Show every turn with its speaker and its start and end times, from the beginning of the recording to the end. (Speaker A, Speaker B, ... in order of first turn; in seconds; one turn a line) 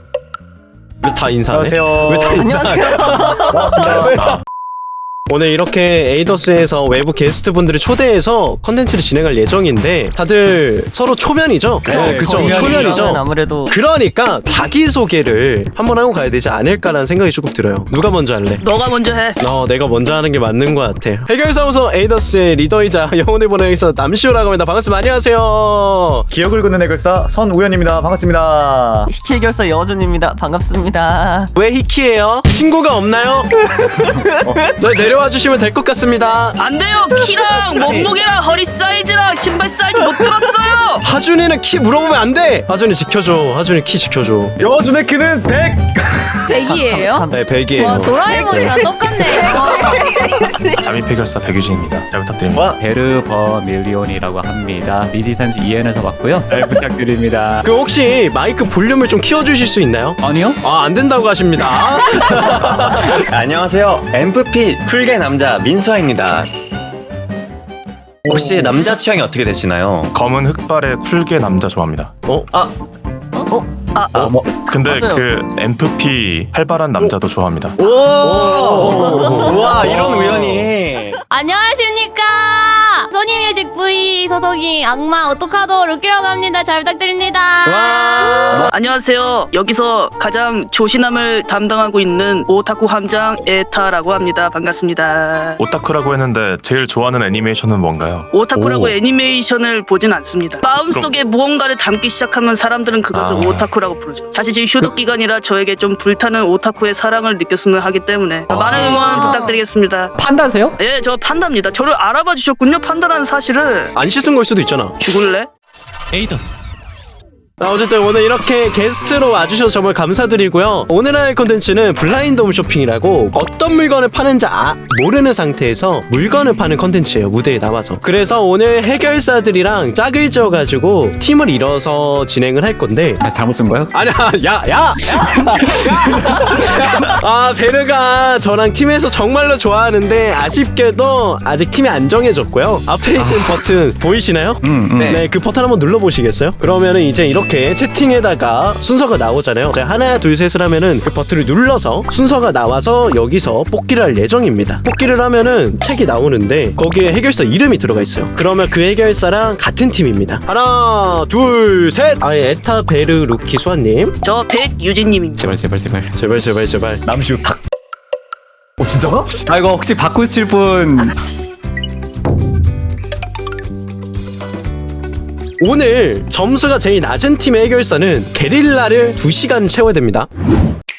Speaker A: 1.0-4.0
Speaker B: 1.5-2.5
Speaker C: 2.2-4.3
Speaker B: 3.4-4.3
Speaker A: 5.3-18.6
Speaker C: 11.8-13.7
Speaker D: 11.9-12.9
Speaker E: 18.6-19.4
Speaker A: 19.4-26.3
Speaker B: 26.3-29.1
Speaker C: 29.1-31.5
Speaker A: 31.6-36.6
Speaker E: 36.6-41.0
Speaker F: 37.8-38.1
Speaker A: 41.0-44.6
Speaker B: 44.6-46.5
Speaker F: 46.5-50.0
Speaker C: 46.5-50.9
Speaker A: 47.3-48.7
Speaker G: 50.8-52.7
Speaker H: 52.5-52.8
Speaker D: 52.8-57.7
Speaker A: 57.6-63.2
Speaker D: 60.2-60.6
Speaker H: 62.6-66.5
Speaker H: 68.2-70.2
Speaker G: 70.1-72.1
Speaker A: 72.2-72.5
Speaker C: 73.4-73.7
Speaker E: 73.9-74.3
Speaker B: 74.1-74.5
Speaker G: 74.1-77.8
Speaker C: 74.8-75.2
Speaker H: 77.8-81.2
Speaker A: 78.2-80.7
Speaker C: 78.5-79.4
Speaker B: 78.8-79.2
Speaker F: 81.3-88.4
Speaker A: 87.6-88.7
Speaker E: 88.1-95.6
Speaker G: 95.6-98.9
Speaker E: 98.3-110.1
Speaker G: 100.8-101.1
Speaker G: 103.1-103.7
Speaker G: 108.5-109.1
Speaker D: 110.2-110.8
Speaker E: 110.8-114.0
Speaker A: 114.0-115.0
Speaker E: 115.0-115.5
Speaker A: 117.6-133.2
Speaker D: 133.2-133.9
Speaker A: 133.9-164.2
Speaker D: 135.2-136.3
Speaker D: 143.1-143.6
Speaker D: 144.6-145.2
Speaker H: 145.0-145.2
Speaker E: 164.2-165.5
Speaker D: 165.4-166.1
Speaker A: 166.1-167.0
Speaker B: 167.0-167.6
Speaker B: 168.8-169.3
Speaker D: 169.4-171.1
Speaker A: 175.6-180.3